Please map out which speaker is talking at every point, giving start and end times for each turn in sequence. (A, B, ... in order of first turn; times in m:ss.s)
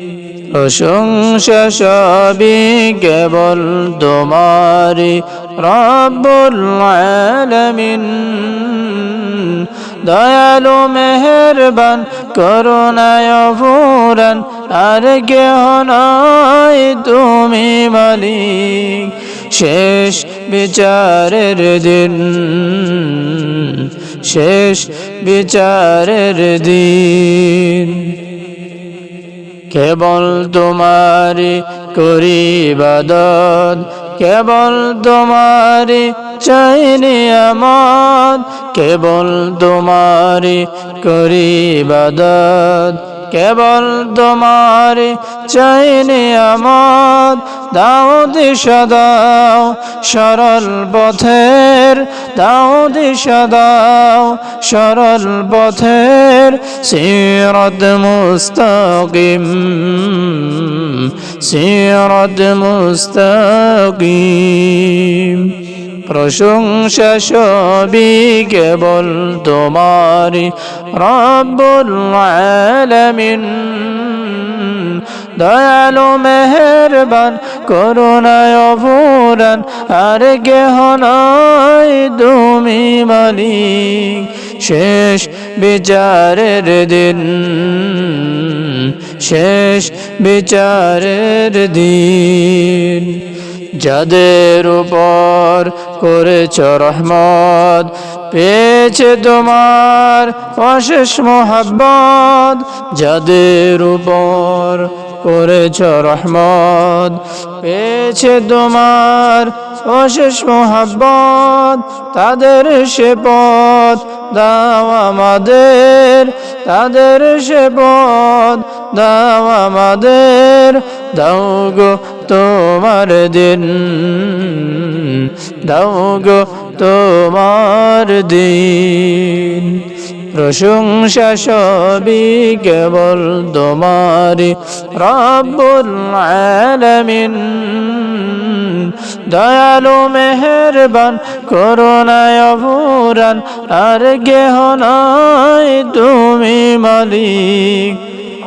0:00.5-0:28.1 A
0:29.7-1:05.5 A
1:06.1-1:33.2 A
1:33.8-2:09.8 A
2:10.3-2:28.0 A